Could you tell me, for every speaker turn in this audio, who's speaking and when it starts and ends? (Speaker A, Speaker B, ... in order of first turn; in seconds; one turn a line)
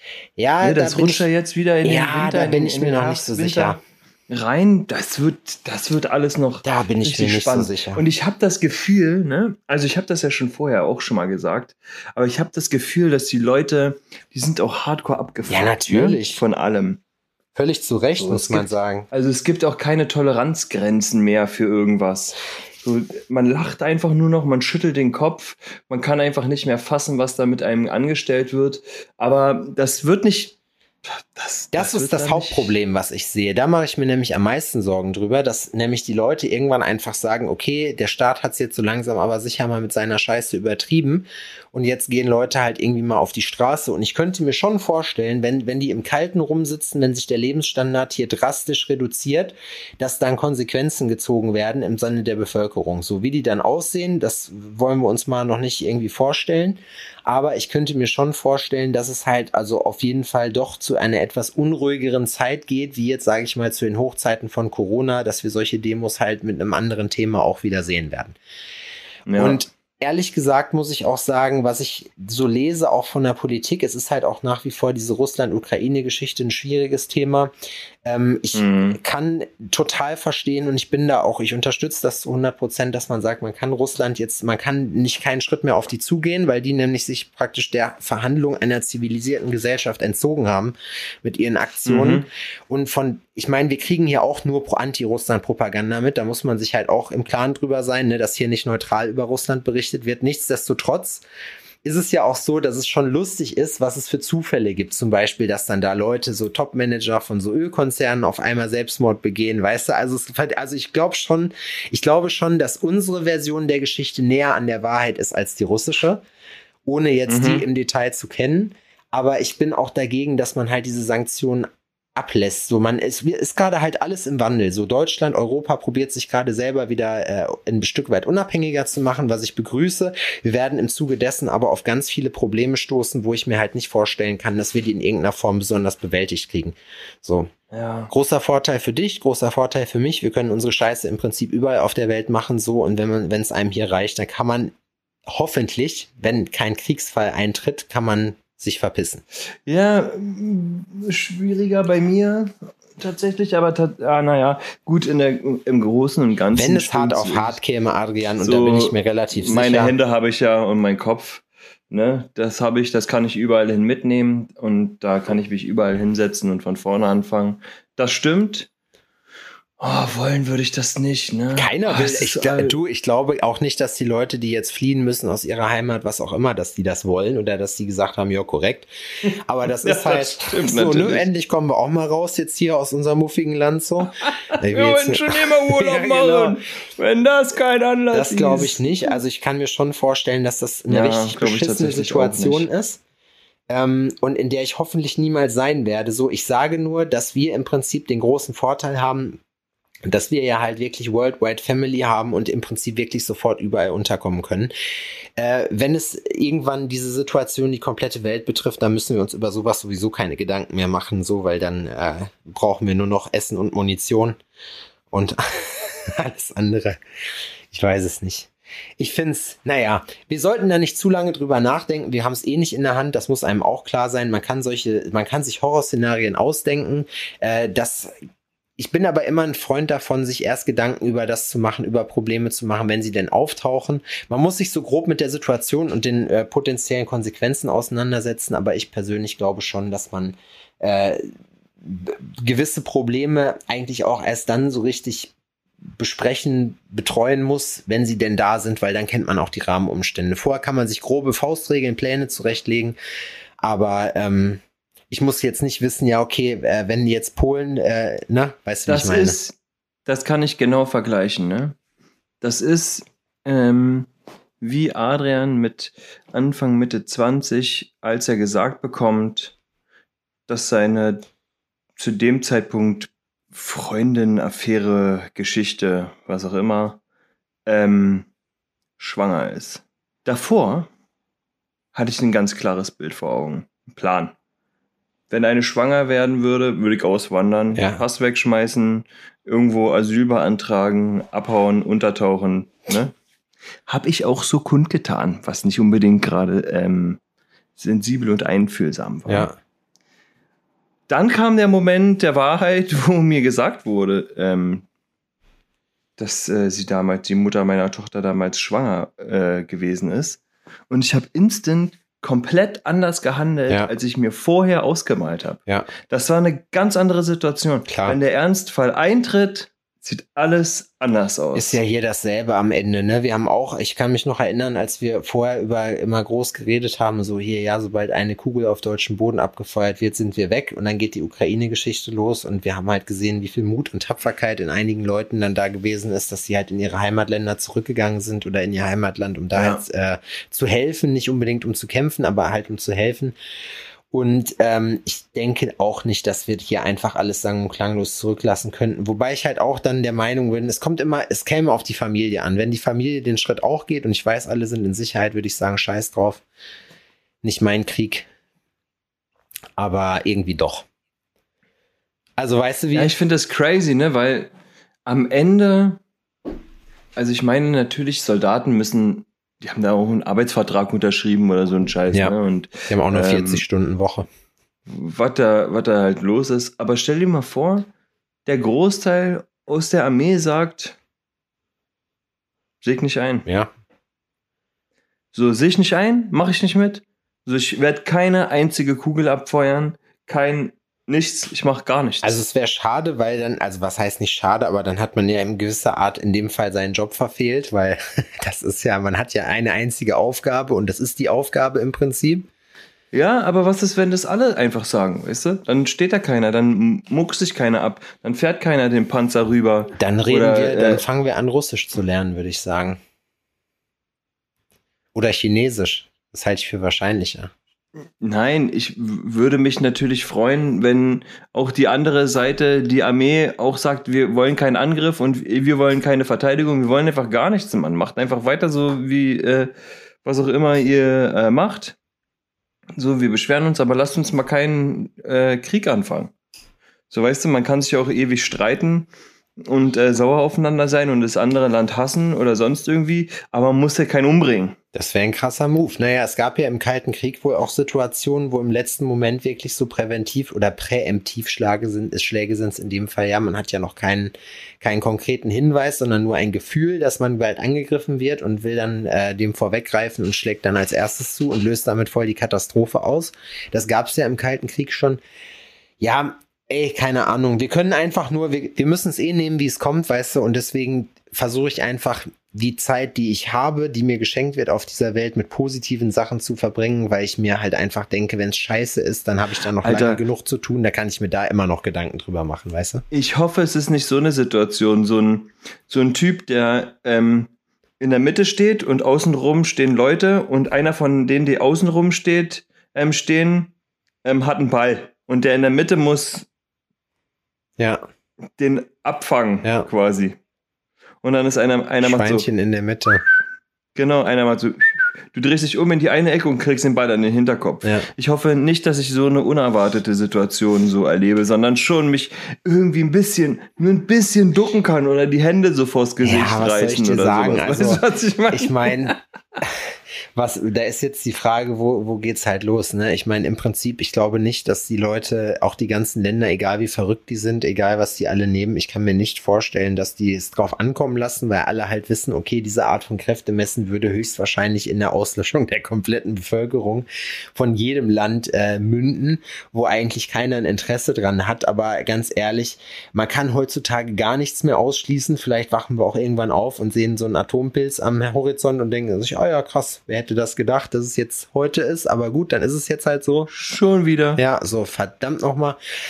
Speaker A: 0.4-1.3
Speaker B: 0.6-17.0
Speaker A: 1.8-3.8
Speaker A: 6.6-8.0
Speaker A: 15.5-16.4
Speaker A: 17.5-19.1
Speaker B: 18.2-32.8
Speaker A: 31.7-68.4
Speaker B: 69.3-69.6
Speaker A: 69.3-77.5
Speaker A: 78.0-101.2
Speaker B: 78.5-79.0
Speaker B: 91.8-92.2
Speaker A: 101.8-116.2
Speaker A: 116.8-137.5
Speaker B: 117.3-117.6
Speaker B: 137.7-138.1
Speaker A: 138.1-144.7
Speaker A: 145.3-149.2
Speaker B: 149.7-157.6
Speaker A: 156.5-159.9
Speaker B: 158.4-168.7
Speaker B: 169.8-172.8
Speaker A: 171.5-178.9
Speaker B: 179.2-181.3
Speaker A: 179.4-186.6
Speaker B: 184.2-189.2
Speaker A: 188.1-193.0
Speaker B: 190.9-192.7
Speaker A: 193.7-199.4
Speaker A: 200.1-204.7
Speaker A: 205.3-214.4
Speaker A: 215.1-217.0
Speaker A: 217.7-228.1
Speaker A: 228.8-241.3
Speaker A: 241.8-245.3
Speaker A: 246.0-252.9
Speaker A: 253.6-259.4
Speaker B: 258.9-261.8
Speaker B: 262.4-269.5
Speaker B: 270.5-271.2
Speaker B: 272.0-277.0
Speaker B: 277.6-278.3
Speaker B: 279.0-280.9
Speaker B: 281.9-284.3
Speaker B: 285.3-293.1
Speaker A: 287.7-288.0
Speaker B: 293.9-297.2
Speaker B: 297.8-299.5
Speaker A: 299.3-299.6
Speaker B: 301.1-304.9
Speaker B: 306.2-321.8
Speaker A: 317.9-318.2
Speaker A: 321.5-343.3
Speaker B: 339.5-339.8
Speaker A: 344.1-356.4
Speaker A: 357.4-358.3
Speaker A: 359.8-360.9
Speaker A: 362.4-363.1
Speaker B: 362.9-364.5
Speaker B: 365.1-366.0
Speaker B: 367.1-373.6
Speaker A: 372.9-374.3
Speaker B: 374.9-377.9
Speaker B: 378.4-381.0
Speaker B: 382.8-383.4
Speaker A: 383.4-383.7
Speaker B: 385.3-392.4
Speaker A: 392.2-402.5
Speaker B: 403.1-411.0
Speaker A: 410.0-413.0
Speaker A: 415.1-417.5
Speaker B: 418.2-429.7
Speaker B: 430.2-431.9
Speaker B: 433.0-436.3
Speaker B: 437.1-439.1
Speaker B: 439.6-444.8
Speaker A: 444.9-465.2
Speaker A: 466.0-483.0
Speaker B: 479.8-480.2
Speaker B: 483.1-493.7
Speaker B: 494.2-496.5
Speaker A: 497.8-498.0
Speaker B: 498.6-500.4
Speaker A: 499.6-499.9
Speaker B: 501.2-502.4
Speaker A: 502.0-503.2
Speaker B: 503.9-519.1
Speaker A: 516.2-553.5
Speaker B: 553.5-554.4
Speaker A: 554.4-555.8